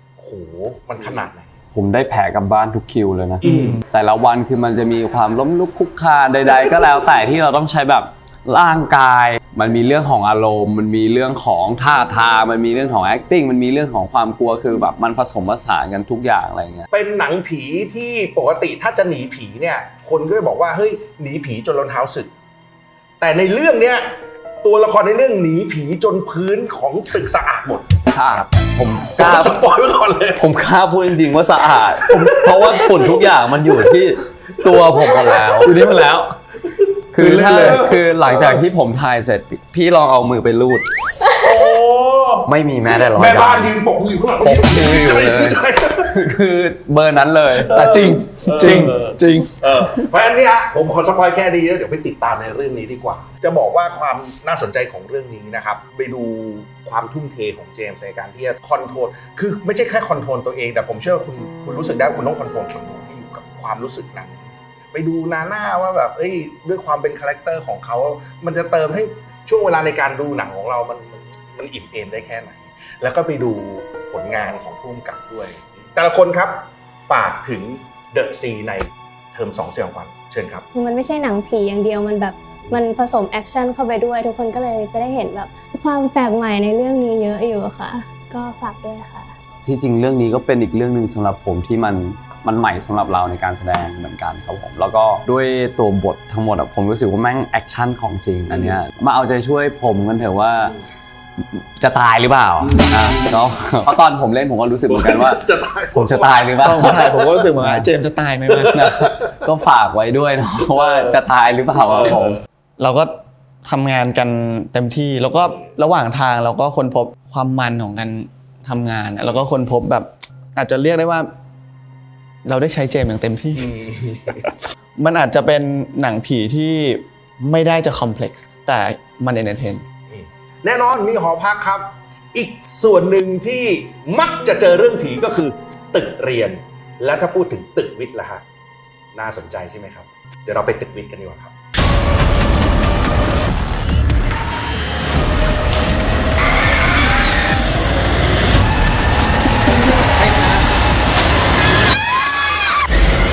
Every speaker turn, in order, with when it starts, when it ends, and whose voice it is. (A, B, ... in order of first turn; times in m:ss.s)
0:00.2-0:01.5 A
0:01.7-0:16.9 B
0:03.4-0:03.8 A
0:16.9-0:22.3 A
0:23.2-0:24.1 A
0:24.6-0:27.9 A
0:28.1-0:29.6 B
0:29.1-0:30.4 A
0:30.4-0:36.1 B
0:32.0-0:34.0 A
0:34.7-0:35.5 A
0:35.6-0:36.3 C
0:37.1-0:41.6 B
0:37.2-0:37.8 C
0:37.3-0:38.6 A
0:41.4-0:42.5 A
0:42.5-0:43.8 B
0:43.0-0:46.2 A
0:44.4-0:49.0 B
0:47.5-1:20.6 A
0:47.7-0:49.5 C
1:20.7-1:29.3 D
1:29.6-1:40.7 B
1:38.5-1:38.8 A
1:40.6-1:40.8 A
1:41.5-1:47.9 B
1:42.6-1:44.0 A
1:44.9-1:47.5 A
1:46.6-1:48.8 C
1:48.5-1:49.4 A
1:48.7-1:52.4 B
1:50.6-1:51.2 A
1:51.8-1:52.4 A
1:52.8-2:01.3 C
2:02.4-2:03.7 C
2:03.6-2:04.5 A
2:05.0-2:09.8 C
2:10.1-2:18.4 A
2:19.1-2:21.5 A